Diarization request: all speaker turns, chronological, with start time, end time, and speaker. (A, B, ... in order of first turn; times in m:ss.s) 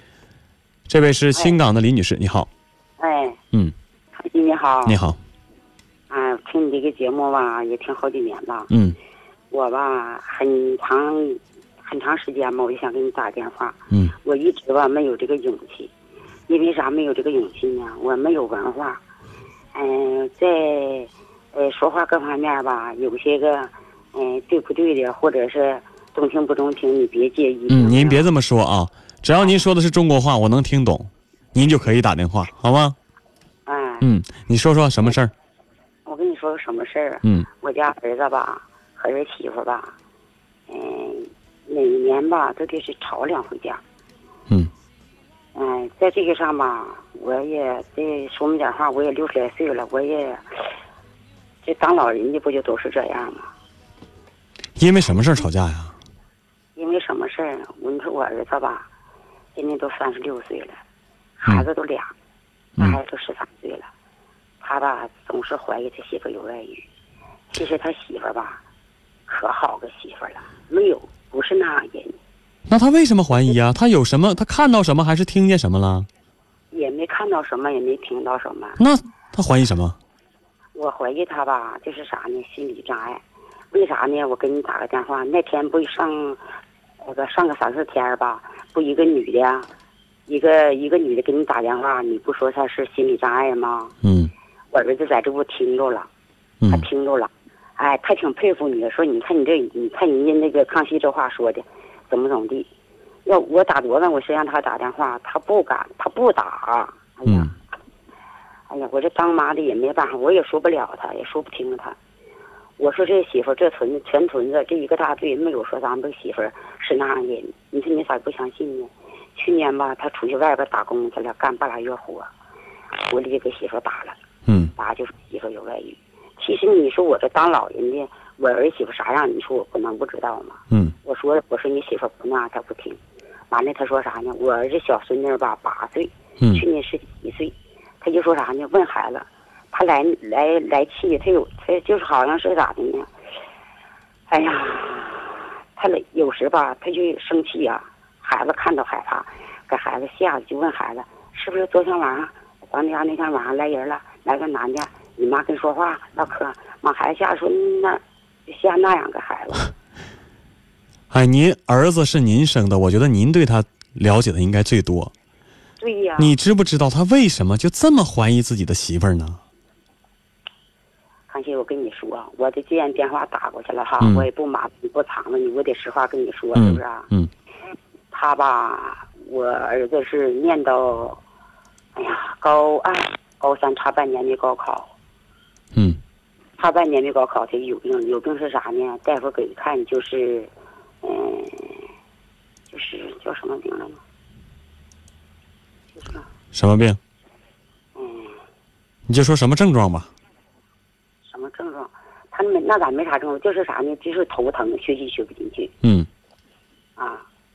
0:00.9-0:02.5 A
0:03.0-0:03.4 B
0:04.1-0:05.0 B
0:04.8-0:05.2 A
0:06.1-0:08.7 B
0:08.7-0:09.0 A
0:09.5-0:15.9 B
0:16.5-0:19.0 B
0:19.7-0:28.3 B
0:27.7-0:33.0 A
0:33.6-0:34.1 B
0:34.0-0:35.3 A
0:36.0-0:39.9 B
0:40.7-0:43.8 B
0:45.5-0:50.4 B
0:51.6-0:53.5 B
0:54.8-0:55.9 A
0:56.8-0:58.9 B
0:59.5-1:00.8 B
1:01.4-1:02.1 B
1:02.8-1:03.9 B
1:04.6-1:06.8 B
1:07.5-1:08.6 B
1:09.3-1:12.2 B
1:12.7-1:16.1 A
1:16.7-1:18.8 B
1:18.8-1:20.0 A
1:20.7-1:26.4 B
1:27.0-1:29.7 B
1:30.3-1:33.9 B
1:34.0-1:34.3 A
1:34.7-1:36.1 B
1:36.7-1:42.7 B
1:43.2-1:47.5 B
1:48.7-1:52.0 B
1:52.8-2:02.3 B
2:03.1-2:04.2 B
2:04.5-2:04.7 A
2:04.8-2:13.0 B
2:13.5-2:23.1 B
2:24.3-2:39.7 B
2:41.1-2:45.1 A
2:45.8-2:46.3 B
2:46.2-2:49.4 A
2:51.3-2:57.1 B
2:54.0-2:54.2 A
2:56.5-2:57.3 A
2:58.1-3:01.2 B
3:01.9-3:04.9 B
3:05.7-3:06.0 A
3:06.6-3:10.5 B
3:11.0-3:11.9 B
3:12.7-3:14.0 B
3:16.0-3:16.2 B
3:16.5-3:17.0 A
3:18.0-3:18.4 B
3:19.1-3:20.1 A
3:21.2-3:25.7 B
3:25.8-3:26.1 A
3:27.0-3:27.2 B